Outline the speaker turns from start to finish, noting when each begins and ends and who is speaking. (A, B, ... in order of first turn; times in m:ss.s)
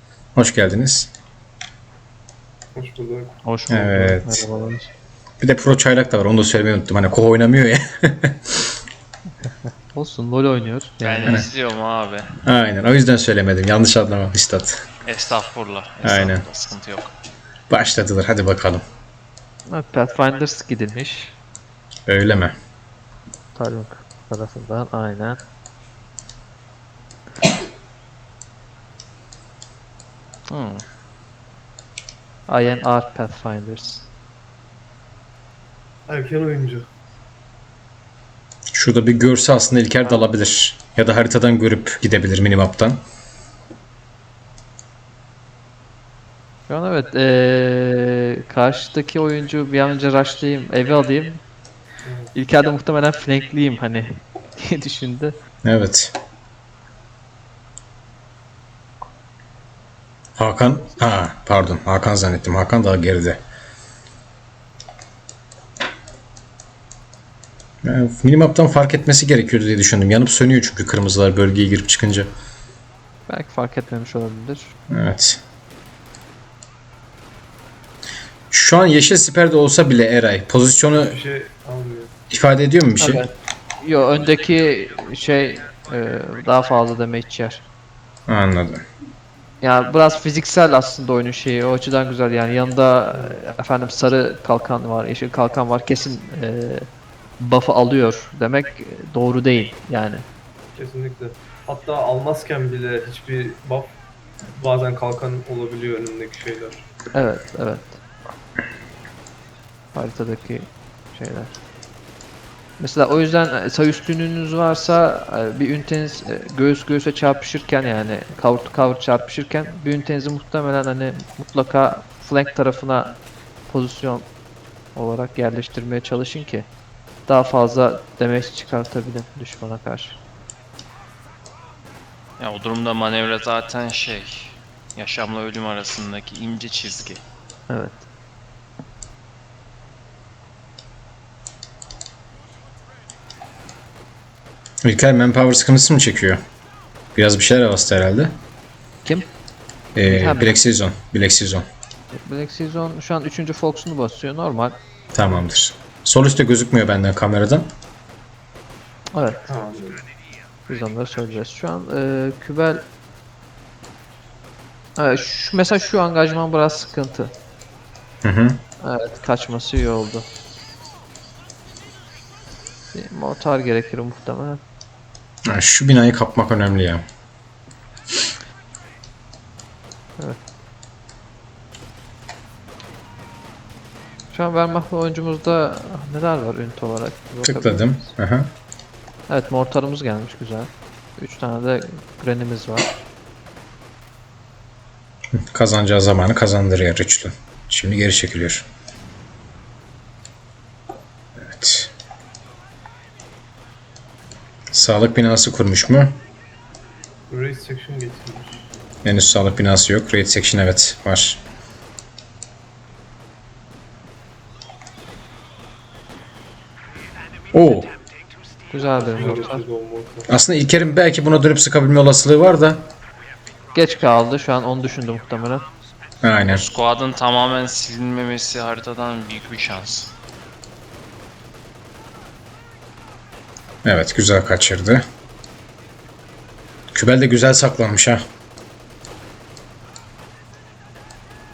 0:00.4-0:01.1 A
0:02.8-0:03.4 B
0:03.5-0:04.9 C
0:03.7-0:04.4 A
0:05.4-0:08.7 A
0:09.9-0:11.5 C
0:11.0-0:12.4 D
0:12.4-0:14.8 A
0:15.1-0:17.1 D
0:16.0-0:16.4 A
0:17.7-0:18.8 A
0:19.7-0:21.4 C
0:22.1-0:22.6 A
0:23.6-0:25.4 C
0:30.5-0:30.8 C
0:32.5-0:34.1 C
0:36.1-0:36.9 B
0:38.7-0:43.0 A
0:46.7-0:51.4 C
0:52.0-0:52.3 B
0:52.4-0:55.4 C
0:55.6-0:56.2 A
1:00.4-1:03.4 A
1:07.8-1:12.3 A
1:13.3-1:14.7 C
1:14.9-1:15.4 A
1:18.5-1:21.2 A
1:21.0-1:22.1 B
1:22.3-1:23.2 A
1:23.0-1:27.6 C
1:28.3-1:28.8 A
1:29.6-1:36.9 C
1:37.4-1:40.2 C
1:40.8-1:44.0 B
1:44.6-1:46.9 B
1:47.1-1:48.0 C
1:49.9-1:51.5 C
1:52.8-2:03.2 C
2:03.7-2:04.3 C
2:05.0-2:06.7 C
2:07.3-2:10.2 C
2:12.4-2:17.2 D
2:17.7-2:18.0 C
2:24.8-2:26.4 A
2:27.2-2:28.4 A
2:30.0-2:31.6 A
2:30.0-2:30.6 C
2:32.1-2:34.8 C
2:35.1-2:37.7 A
2:39.1-2:39.5 C
2:39.5-2:40.0 B
2:40.7-2:42.8 C
2:45.0-2:47.3 C
2:48.2-2:48.6 A
2:48.8-2:50.3 C
2:52.9-2:54.6 C
2:55.5-2:57.0 A
3:04.3-3:08.0 C
3:07.4-3:08.5 A
3:09.3-3:12.9 C
3:15.3-3:18.7 A
3:21.4-3:21.9 A
3:24.7-3:26.2 A
3:27.3-3:28.6 B
3:29.0-3:31.4 A
3:37.5-3:37.9 A
3:38.7-3:39.6 C
3:39.1-3:40.3 B
3:40.3-3:42.9 A
3:43.7-3:45.7 C
3:46.2-3:46.7 A
3:46.4-3:50.1 D
3:53.8-3:55.0 A
3:56.9-3:58.2 A